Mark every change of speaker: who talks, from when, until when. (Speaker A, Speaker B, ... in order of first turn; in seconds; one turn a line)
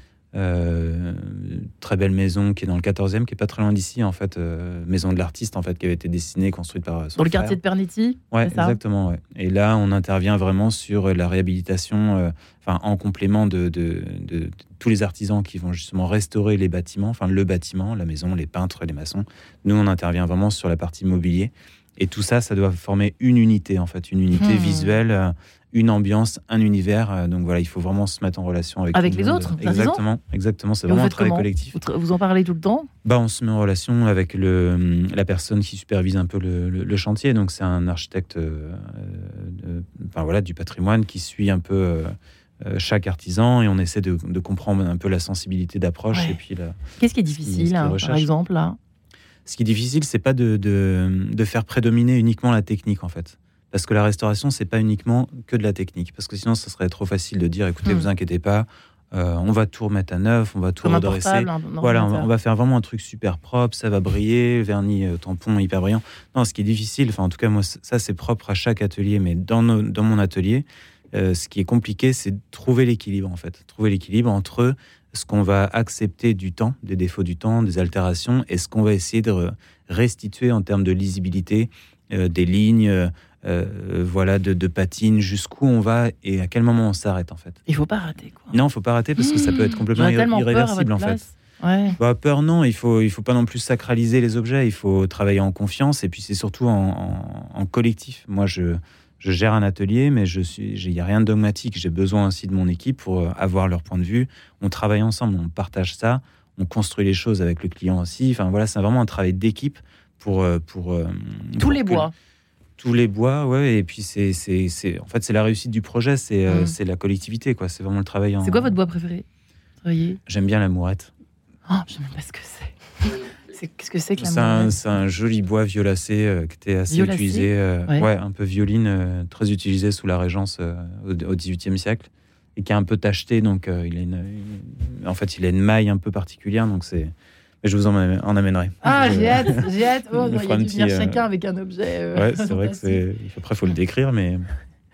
Speaker A: 0.3-7.6
Speaker B: 7.2-8.8
Speaker A: 8.3-31.8
Speaker B: 24.4-24.9
Speaker B: 28.9-30.0
Speaker B: 30.9-32.9
Speaker A: 33.0-46.7
Speaker B: 47.0-48.8
Speaker A: 47.4-48.3
Speaker A: 49.5-87.6
Speaker B: 60.8-62.3
Speaker B: 87.7-88.5
Speaker A: 88.5-91.2
Speaker B: 89.2-92.0
Speaker A: 92.0-112.0
Speaker B: 111.6-112.1
Speaker A: 112.8-118.7
Speaker B: 116.5-116.7
Speaker B: 118.4-119.2
Speaker B: 119.8-120.2
Speaker A: 120.3-121.1
Speaker B: 121.7-124.7
Speaker A: 124.2-139.6
Speaker B: 126.9-128.0
Speaker B: 138.8-143.0
Speaker A: 140.2-141.2
Speaker A: 142.1-144.5